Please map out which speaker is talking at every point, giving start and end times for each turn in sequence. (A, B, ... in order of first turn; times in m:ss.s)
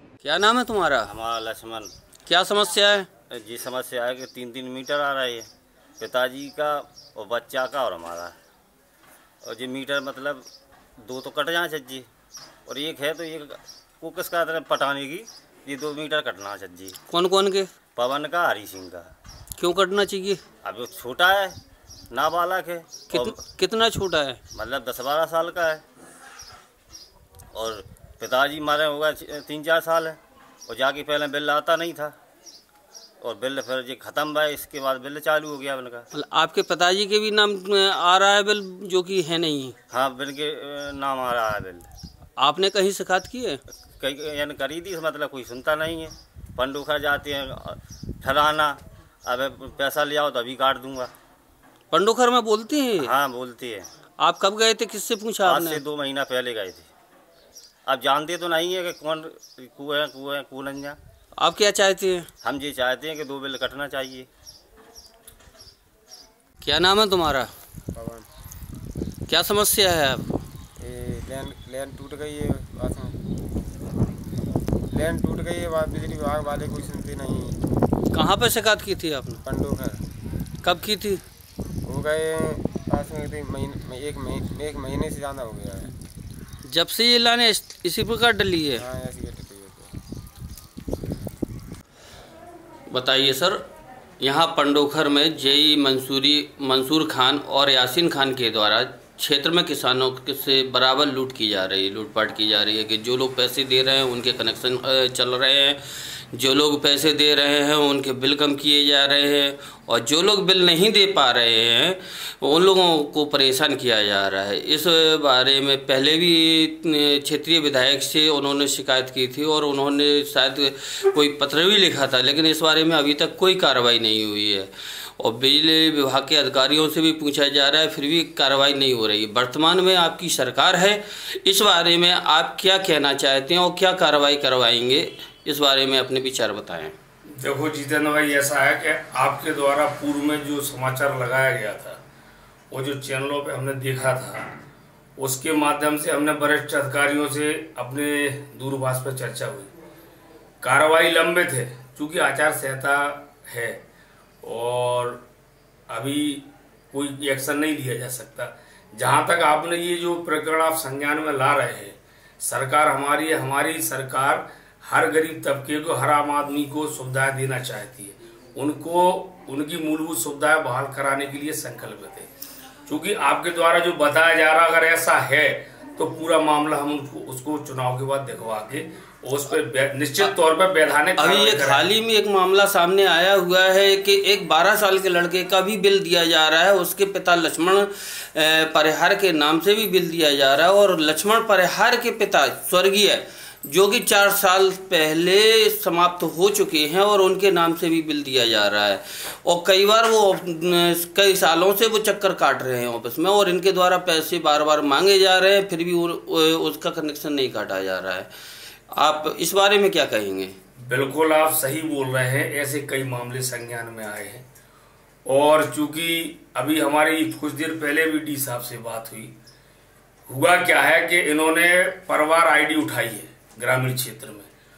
0:00.2-0:01.1 A
0:01.1-0:01.9 B
0:02.2-0:03.1 A
0:03.3-0:05.5 B
0:06.0-0:08.3 B
0:09.4-0:10.4 B
0:11.0-0:12.1 B
0:12.6-0:17.0 B
0:17.1-0:17.7 A
0:17.9-0:19.1 B
0:19.6-0:20.4 A
0:20.6-0:21.6 B
0:22.1-0:23.4 B
0:23.1-0:24.4 A
0:24.5-0:25.8 B
0:27.5-0:32.1 B
0:33.2-0:36.1 B
0:36.1-0:39.7 A
0:39.9-0:41.9 B
0:42.4-0:43.6 A
0:43.9-0:51.1 B
0:51.9-0:53.1 A
0:53.0-0:53.9 B
0:54.2-0:55.8 A
0:55.4-0:56.9 B
0:57.8-1:01.0 B
1:01.4-1:02.3 A
1:02.4-1:04.3 B
1:06.6-1:07.5 A
1:08.0-1:08.2 C
1:09.3-1:10.4 A
1:10.8-1:13.1 C
1:14.9-1:17.5 C
1:18.1-1:19.4 A
1:19.5-1:20.0 C
1:20.6-1:21.2 A
1:21.8-1:25.9 C
1:26.6-1:28.9 A
1:28.9-1:29.9 C
1:32.9-1:33.6 A
1:34.2-1:45.8 A
1:46.3-2:16.9 A
2:17.4-2:22.0 D
2:22.7-2:24.4 D
2:25.2-2:29.7 D
2:30.6-2:33.8 D
2:34.4-2:35.2 D
2:35.9-2:52.3 D
2:52.9-3:01.9 D
3:01.1-3:28.3 A
3:28.9-3:30.5 A
3:30.8-3:34.4 D
3:35.2-3:39.3 D
3:40.3-3:44.5 D